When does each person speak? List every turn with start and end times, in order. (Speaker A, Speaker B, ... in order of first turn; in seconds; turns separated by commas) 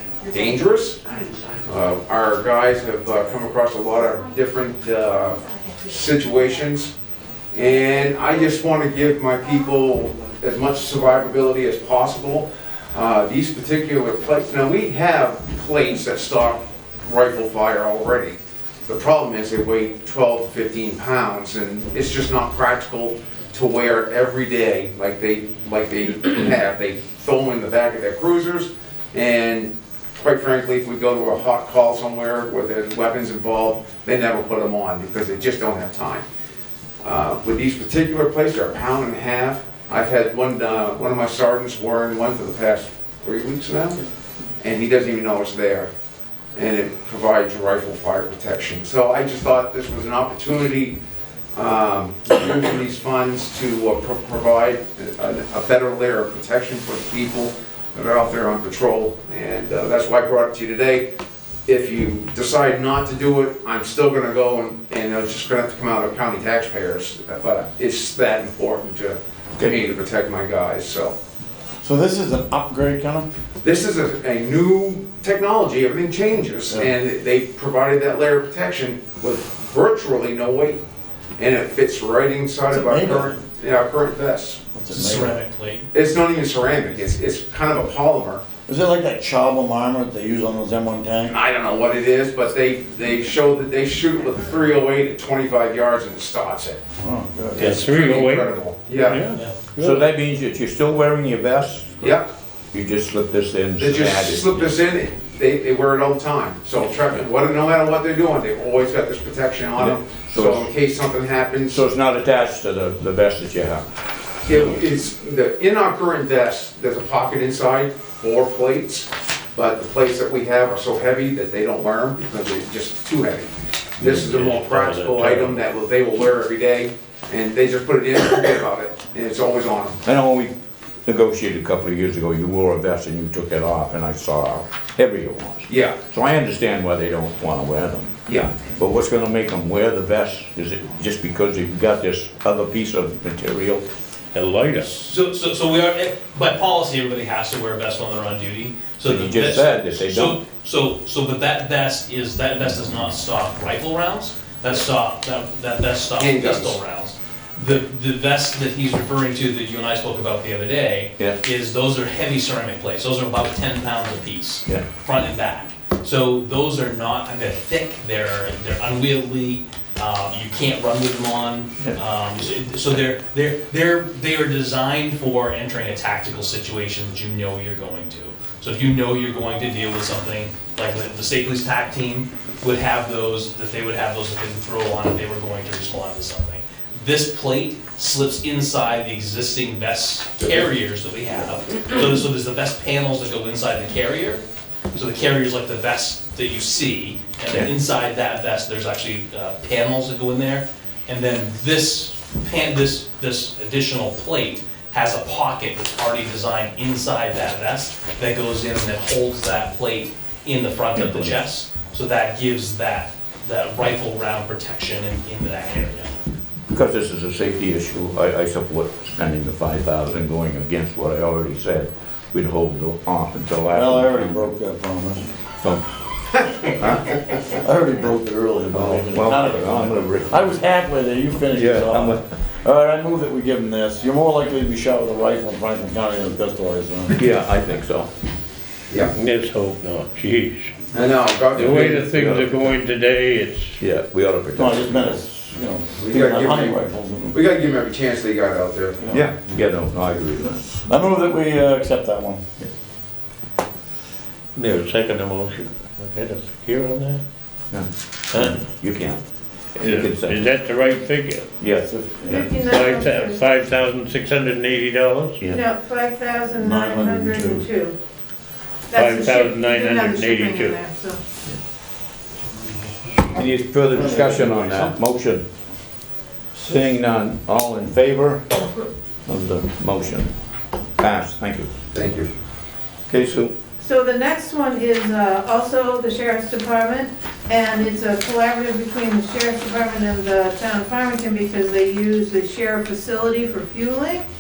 Speaker A: 0.3-1.0, Speaker A: 1.6-6.9, Speaker A: 7.5-36.3, Speaker A: 37.0-44.0, Speaker A: 44.6-45.9, Speaker A: 46.5-51.0, Speaker A: 51.5-61.1, Speaker A: 61.7-71.2, Speaker B: 71.8-73.3, Speaker A: 73.6-80.8, Speaker A: 81.4-84.6, Speaker B: 82.7-83.4, Speaker B: 84.7-85.4, Speaker C: 84.9-85.8, Speaker A: 85.9-88.4, Speaker B: 88.7-91.3, Speaker A: 91.3-96.8, Speaker B: 97.0-97.7, Speaker A: 97.5-99.3, Speaker D: 97.6-100.0, Speaker E: 99.8-102.2, Speaker A: 102.0-102.3, Speaker E: 102.7-104.7, Speaker A: 103.8-111.8, Speaker E: 109.8-110.7, Speaker E: 111.7-113.8, Speaker A: 114.5-130.0, Speaker D: 124.0-125.5, Speaker E: 130.1-130.5, Speaker E: 131.1-143.8, Speaker A: 135.7-136.0, Speaker A: 138.3-138.5, Speaker D: 144.3-144.9, Speaker C: 144.8-216.1, Speaker E: 149.1-150.4, Speaker A: 156.2-156.8, Speaker E: 210.9-211.5, Speaker E: 216.7-224.4, Speaker B: 223.7-225.4, Speaker E: 225.5-225.8, Speaker E: 226.8-227.2, Speaker B: 227.5-237.2, Speaker E: 228.7-230.6, Speaker E: 231.5-232.2, Speaker E: 237.2-238.1, Speaker A: 238.9-239.1, Speaker D: 239.1-240.7, Speaker A: 240.9-242.0, Speaker E: 241.6-242.6, Speaker D: 241.6-243.8, Speaker E: 243.8-245.2, Speaker B: 244.6-247.4, Speaker A: 246.0-249.0, Speaker B: 249.0-249.3, Speaker E: 249.1-250.8, Speaker B: 250.8-252.4, Speaker D: 254.6-257.2, Speaker E: 257.7-259.2, Speaker D: 258.3-258.6, Speaker E: 259.8-260.5, Speaker D: 259.8-261.6, Speaker E: 261.6-261.9, Speaker B: 261.8-262.4, Speaker F: 262.3-263.4, Speaker D: 262.6-265.4, Speaker F: 265.5-268.0, Speaker B: 266.6-267.7, Speaker F: 268.9-271.2, Speaker D: 268.9-270.8, Speaker E: 273.3-275.4, Speaker B: 274.0-274.8, Speaker E: 276.5-278.7, Speaker E: 279.3-280.3, Speaker E: 281.0-281.7, Speaker A: 281.9-282.3, Speaker E: 283.1-283.5, Speaker F: 283.8-294.2